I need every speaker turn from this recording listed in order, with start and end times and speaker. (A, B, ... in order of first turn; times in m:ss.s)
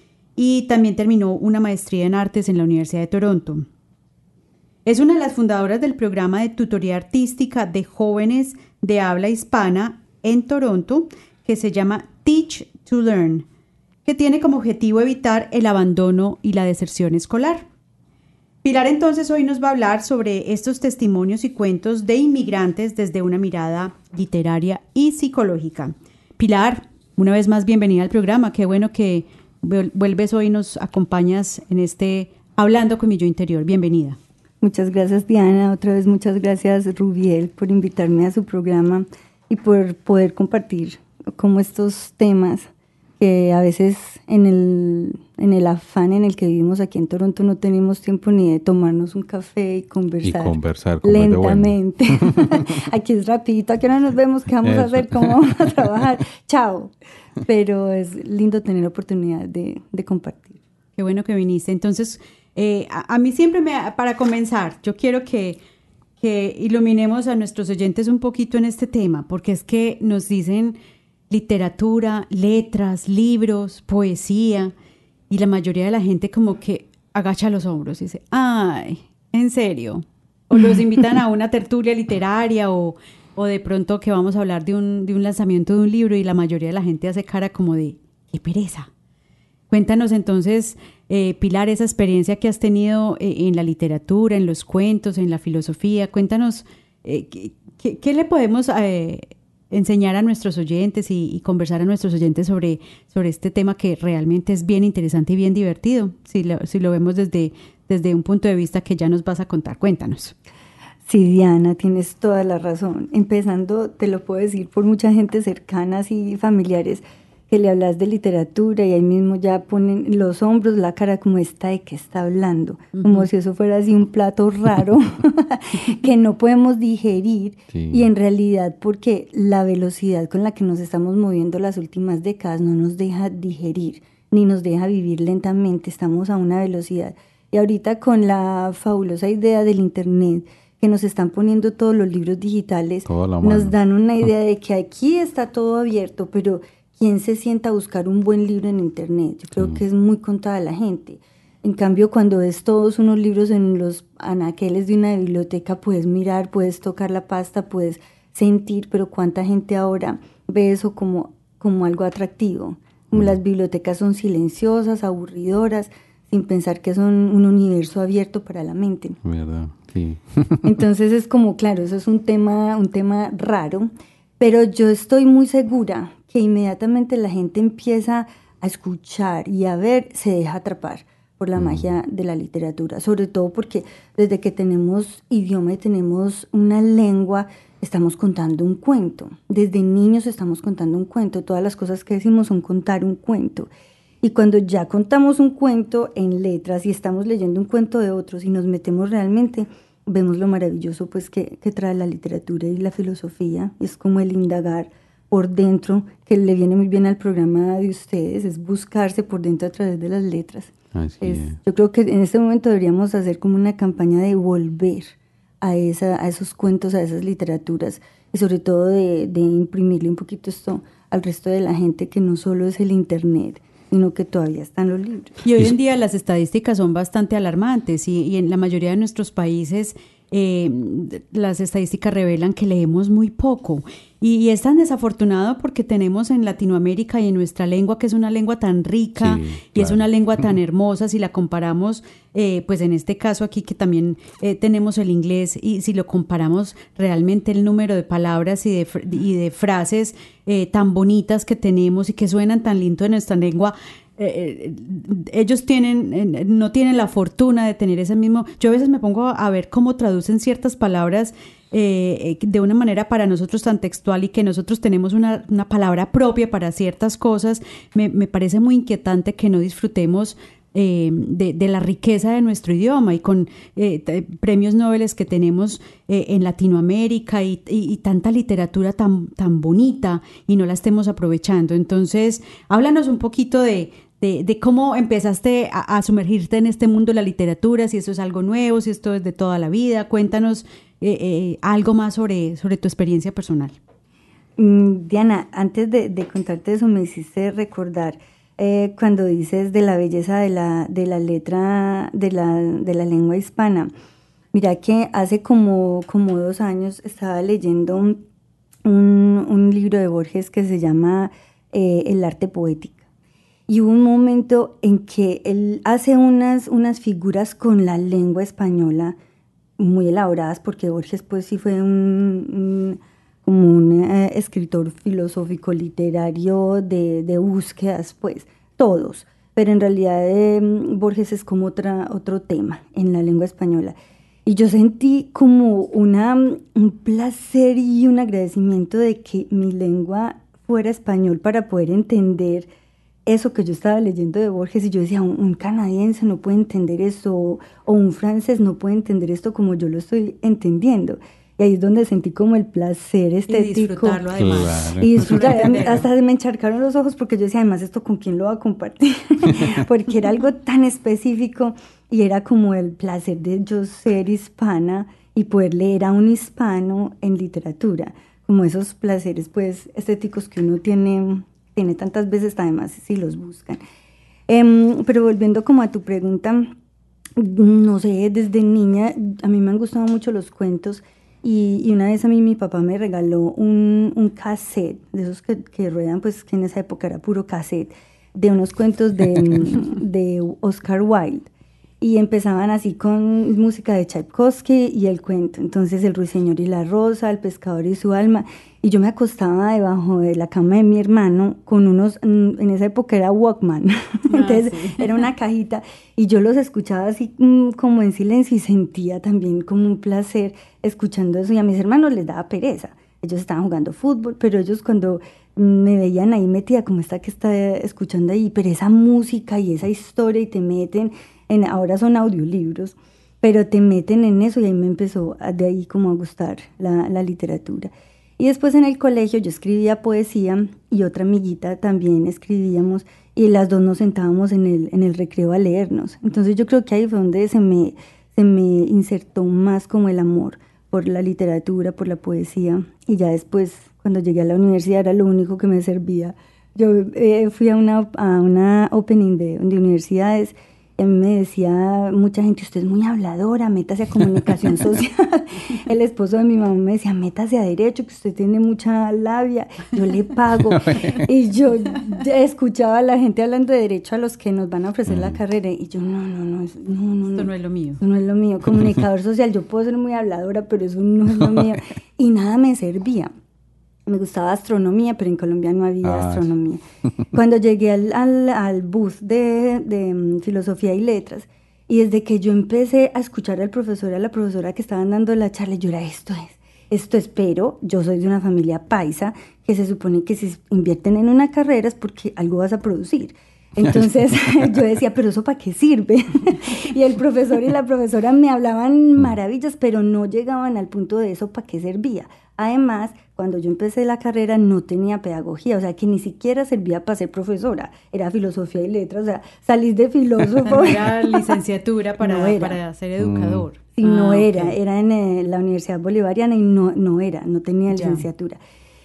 0:00.4-0:03.6 A
0:04.8-0:13.4 A
0:14.0-0:17.6 A
0:18.6-0:34.2 A
0:34.6-0:42.7 B
0:43.2-1:00.6 B
0:50.2-0:52.7 C
0:54.6-0:55.7 C
1:01.0-1:05.6 A
1:06.2-1:10.8 A
1:11.3-1:14.7 A
1:15.3-1:28.9 A
1:29.7-1:50.3 A
1:51.0-2:49.2 B
2:03.0-2:03.3 A
2:07.7-2:08.1 C
2:23.0-2:23.7 C
2:49.2-2:50.8 C
2:50.6-3:13.7 B
3:01.6-3:01.9 C
3:14.2-3:45.4 B
3:30.9-3:31.6 C
3:45.4-4:53.7 A
3:59.2-4:00.0 C
4:54.6-5:03.9 B
5:04.5-5:08.2 B
5:08.8-5:13.0 B
5:13.7-5:19.2 B
5:19.8-5:33.9 B
5:34.4-5:42.7 B
5:43.2-6:13.8 B
5:53.5-5:56.0 A
5:54.3-5:55.5 C
6:14.5-6:16.7 B
6:17.4-6:31.5 B
6:32.0-7:53.3 B
6:44.3-6:45.2 A
7:40.5-7:41.2 C
7:45.1-7:45.4 C
7:47.3-7:48.0 A
7:54.1-7:56.8 B
7:56.0-7:56.5 C
7:57.3-8:31.5 B
8:30.7-8:34.8 A
8:32.2-8:32.8 B
8:33.2-8:33.6 C
8:34.0-8:38.6 B
8:37.9-8:38.2 A